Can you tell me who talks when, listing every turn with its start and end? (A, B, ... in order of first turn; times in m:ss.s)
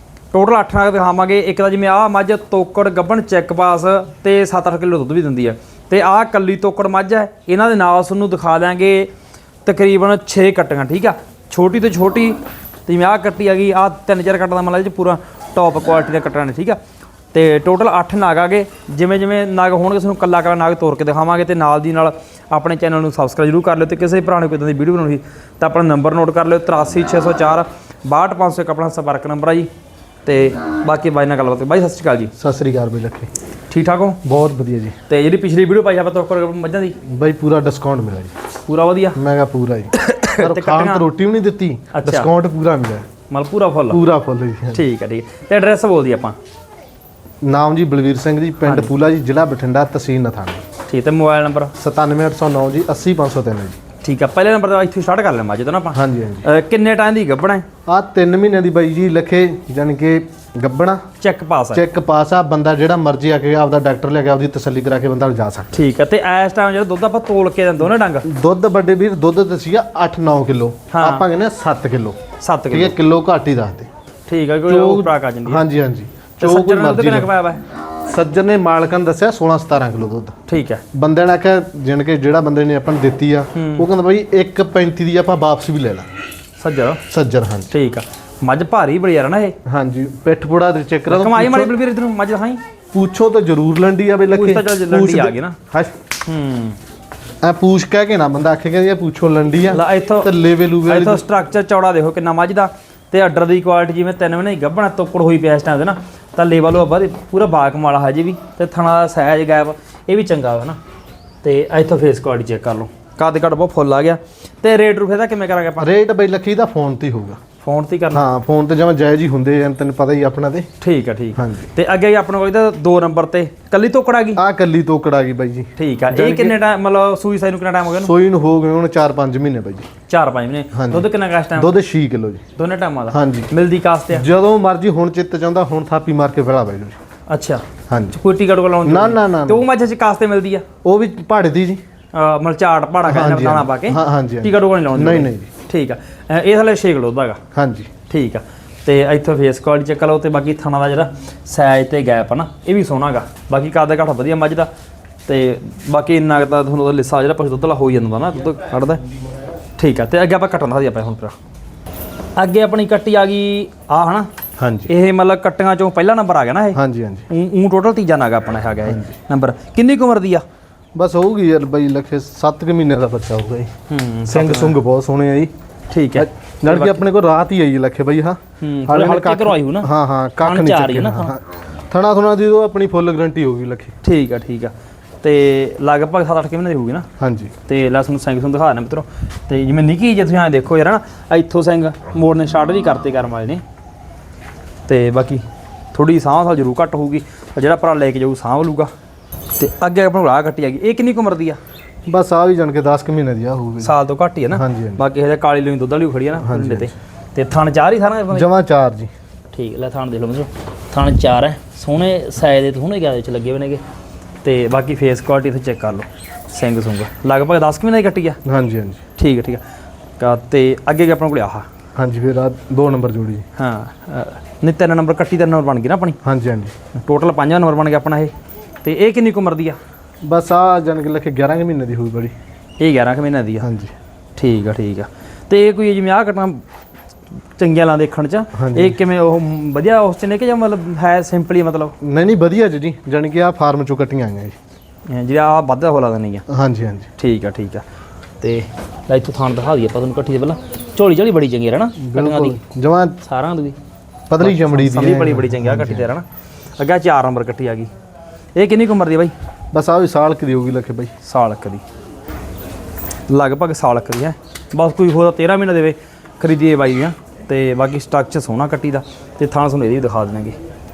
0:00.3-0:09.1 A
0:09.6-0:16.8 A
0:17.3-0:29.7 A
0:30.2-0:32.3 A
0:32.4-0:33.3 B
0:33.7-0:34.2 A
0:34.2-0:35.0 B
0:35.1-0:37.0 A
0:37.0-0:38.3 B
0:38.6-0:39.2 A
0:39.2-0:43.0 B
0:39.9-0:41.0 A
0:41.9-0:42.3 A
0:43.3-0:44.0 A
0:43.9-0:44.8 B
0:44.7-0:46.4 A
0:47.4-0:50.6 B
0:48.6-0:48.9 A
0:50.9-0:51.7 A
0:51.8-0:53.8 B
0:54.0-0:57.6 A
0:55.9-0:56.5 B
0:57.9-1:01.0 B
1:01.2-1:01.8 A
1:01.7-1:05.7 B
1:05.7-1:08.3 A
1:08.2-1:12.2 B
1:10.9-1:11.2 A
1:12.4-1:13.0 A
1:12.7-1:13.9 B
1:14.3-1:15.6 A
1:14.6-1:17.3 B
1:16.4-1:17.6 A
1:18.0-1:20.4 B
1:20.5-1:20.8 A
1:20.9-1:26.1 B
1:23.5-1:23.9 A
1:26.6-1:27.0 A
1:27.1-1:27.7 B
1:27.7-1:29.6 A
1:29.6-1:31.8 B
1:31.1-1:32.6 A
1:32.9-1:36.0 B
1:34.3-1:35.6 A
1:36.2-1:36.8 A
1:37.4-1:41.2 B
1:39.7-1:40.3 A
1:40.8-1:50.8 A
1:51.4-1:55.9 A
1:55.8-1:57.4 B
1:57.6-1:58.2 A
1:58.1-2:00.7 B
2:00.8-2:04.4 A
2:01.4-2:01.7 B
2:04.4-2:06.6 B
2:05.8-2:08.1 A
2:08.0-2:09.9 B
2:10.1-2:11.7 A
2:10.7-2:12.4 B
2:12.6-2:14.2 A
2:13.1-2:13.5 B
2:14.1-2:17.0 B
2:17.3-2:20.6 A
2:17.9-2:18.2 B
2:18.8-2:19.6 B
2:20.8-2:21.8 B
2:22.1-2:27.4 A
2:23.1-2:25.5 B
2:27.5-2:27.9 B
2:28.1-2:34.7 A
2:35.2-2:39.0 A
2:39.8-2:41.3 A
2:42.4-2:44.3 A
2:44.6-2:44.9 B
2:44.9-2:50.4 A
2:46.7-2:47.3 B
2:48.8-2:49.1 B
2:50.9-2:53.7 B
2:53.9-2:54.8 A
2:54.3-2:55.5 B
2:55.9-2:57.0 A
2:56.2-3:03.9 B
2:58.6-2:59.9 A
3:00.4-3:01.3 A
3:04.0-3:07.1 A
3:07.2-3:07.5 B
3:07.7-3:13.6 A
3:14.9-3:18.9 A
3:19.6-3:21.6 A
3:22.0-3:23.9 B
3:23.8-3:28.5 A
3:24.5-3:25.0 B
3:26.4-3:26.9 B
3:28.3-3:29.1 B
3:29.5-3:33.8 A
3:34.4-3:38.4 A
3:38.4-3:39.0 B
3:39.2-3:39.6 A
3:40.2-3:41.6 A
3:42.0-3:43.4 B
3:43.6-3:46.2 A
3:46.2-3:46.7 B
3:46.9-3:48.3 A
3:48.8-3:49.8 A
3:50.2-3:52.3 B
3:52.8-3:53.6 A
3:53.6-3:53.9 B
3:54.4-3:56.6 A
3:57.6-4:02.0 A
3:58.5-3:59.0 B
4:02.0-4:04.6 B
4:05.1-4:06.4 A
4:06.5-4:07.1 B
4:07.2-4:07.8 A
4:08.4-4:12.6 A
4:12.0-4:13.2 B
4:13.2-4:13.8 A
4:14.3-4:16.1 B
4:14.4-4:16.2 A
4:16.8-4:17.9 A
4:18.5-4:19.3 A
4:19.7-4:21.1 B
4:21.2-4:21.8 A
4:23.3-4:30.6 A